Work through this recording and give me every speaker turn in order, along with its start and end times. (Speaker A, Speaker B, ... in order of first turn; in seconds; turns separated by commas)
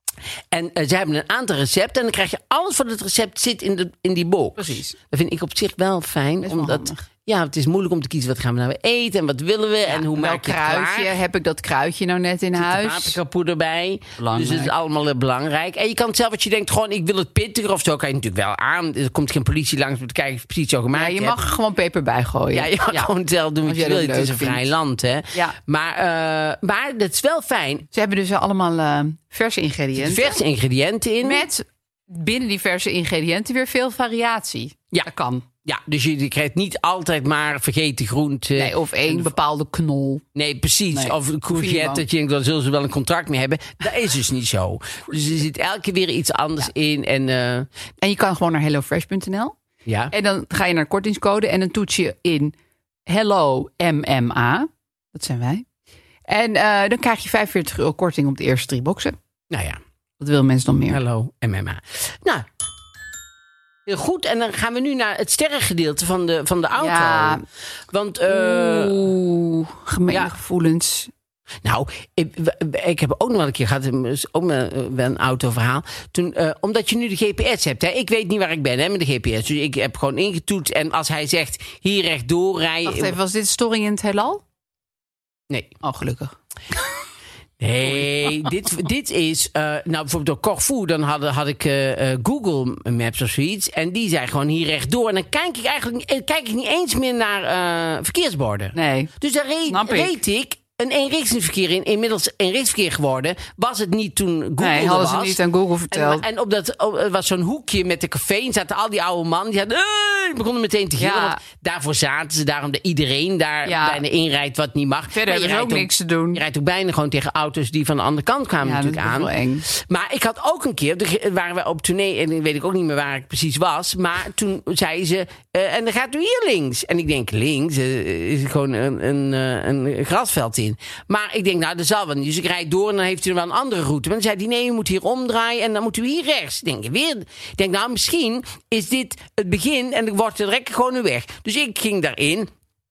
Speaker A: 0.5-11.1, Speaker B: 4.6-5.0, Speaker B: 6.4-7.0, Speaker B: 9.8-13.2, Speaker A: 12.6-21.4, Speaker B: 14.2-14.7, Speaker B: 20.9-23.1, Speaker A: 22.5-27.9, Speaker B: 23.6-24.6, Speaker B: 27.9-30.4, Speaker A: 29.9-31.4, Speaker B: 31.2-35.5, Speaker A: 35.6-39.4, Speaker B: 38.5-40.2, Speaker A: 40.3-47.7, Speaker B: 40.9-42.0, Speaker B: 48.0-49.5, Speaker A: 49.9-50.1, Speaker B: 50.1-52.5, Speaker B: 53.1-55.6, Speaker B: 56.3-59.1, Speaker A: 59.5-59.8, Speaker B: 60.2-61.0, Speaker A: 60.9-62.5, Speaker A: 63.9-69.0, Speaker B: 66.8-67.4, Speaker B: 68.3-71.1, Speaker A: 71.6-83.1, Speaker B: 82.8-84.4, Speaker B: 85.8-86.3, Speaker A: 87.6-105.4, Speaker B: 87.9-88.3, Speaker B: 98.7-99.1, Speaker B: 99.7-100.2, Speaker B: 104.6-106.2, Speaker A: 105.9-142.5, Speaker B: 111.0-111.4, Speaker B: 113.7-114.0, Speaker B: 115.1-116.4, Speaker B: 118.6-119.6